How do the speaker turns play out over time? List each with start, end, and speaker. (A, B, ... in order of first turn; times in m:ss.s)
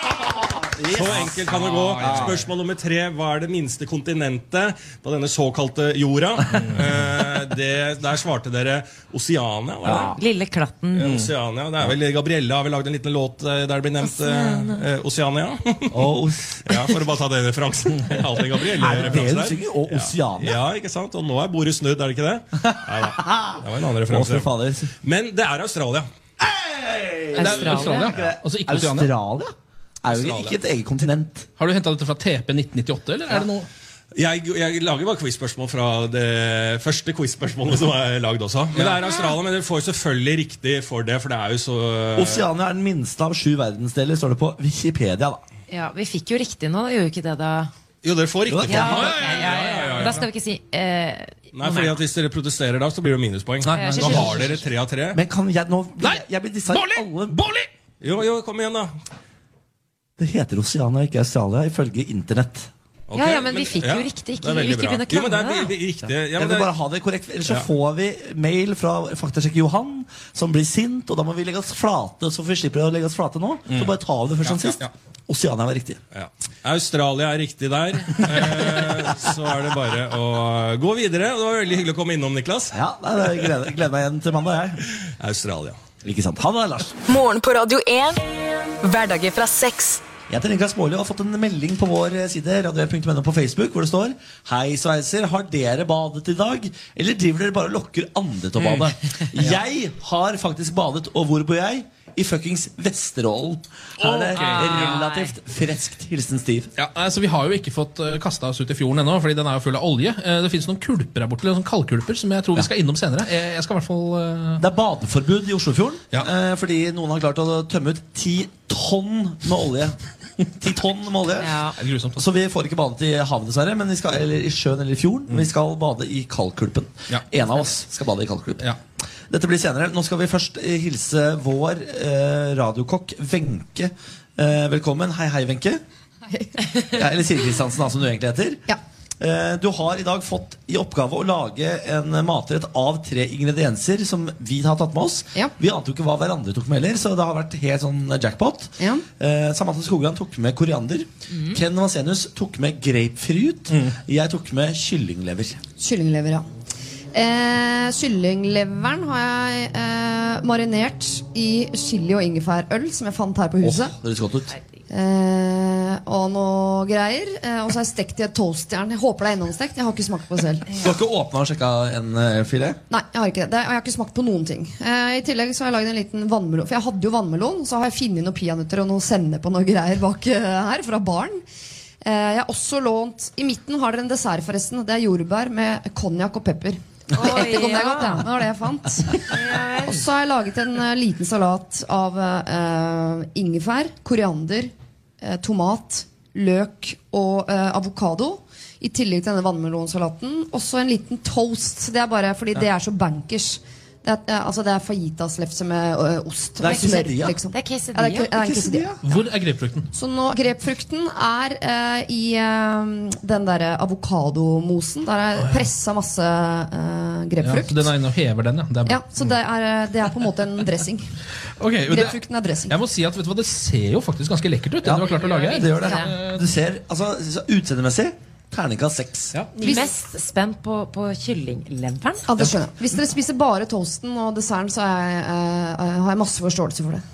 0:00.4-0:02.5 A
0:00.9-0:10.1 B
0:01.1-0:02.4 C
0:06.5-0:06.8 C
0:09.8-0:10.1 A
0:09.9-0:11.1 D
0:11.0-0:16.1 B
0:14.0-0:14.8 D
0:15.9-0:17.0 A
0:16.6-0:24.5 B
0:18.7-0:20.6 A
0:22.6-0:24.9 A
0:25.0-0:26.1 B
0:26.4-0:29.5 A
0:27.3-0:28.1 D
0:27.4-0:29.1 C
0:30.0-0:31.5 A
0:30.1-0:30.6 B
0:31.6-0:33.7 C
0:34.1-0:42.5 B
0:42.2-0:45.4 A
0:45.7-0:47.7 D
0:48.0-0:50.2 B
0:48.5-0:49.0 A
0:48.6-0:52.0 D
0:48.8-0:50.3 C
0:51.5-0:55.2 B
0:53.6-0:54.5 C
0:53.7-0:54.6 D
0:55.1-0:57.4 A
0:56.0-0:57.7 C
0:58.0-0:58.9 B
1:00.2-1:02.7 A
1:03.1-1:06.7 B
1:03.1-1:05.8 D
1:06.1-1:16.0 A
1:13.7-1:14.9 C
1:16.1-1:22.8 B
1:18.3-1:18.8 C
1:22.7-1:24.8 A
1:25.1-1:25.8 B
1:26.0-1:27.0 A
1:27.1-1:28.2 E
1:28.8-1:30.0 E
1:30.3-1:46.7 A
1:44.0-1:45.0 C
1:44.3-1:45.3 D
1:46.8-1:54.6 C
1:54.6-2:00.0 A
2:00.5-2:08.6 A
2:01.4-2:01.8 D
2:01.8-2:02.2 C
2:09.3-2:15.8 A
2:16.3-2:16.6 F
2:16.9-2:18.7 A
2:19.2-2:35.6 A
2:28.8-2:29.0 F
2:31.3-2:31.6 D
2:33.7-2:34.0 C
2:35.8-2:36.4 F
2:37.1-2:43.9 F
2:43.6-2:44.5 A
2:44.9-2:50.7 F
2:50.7-2:52.8 A
2:52.9-3:01.4 F
3:02.0-3:29.0 F
3:07.1-3:08.2 D
3:09.2-3:10.0 D
3:26.6-3:27.4 A
3:26.6-3:28.9 D
3:29.0-3:29.9 C
3:29.9-3:37.9 F
3:35.4-3:35.7 C
3:37.4-3:39.3 C
3:38.9-3:41.1 F
3:41.6-3:46.4 C
3:41.9-3:42.8 F
3:44.8-3:49.3 A
3:45.0-3:46.1 D
3:49.6-3:49.9 F
3:49.6-3:52.3 D
3:52.3-3:57.0 F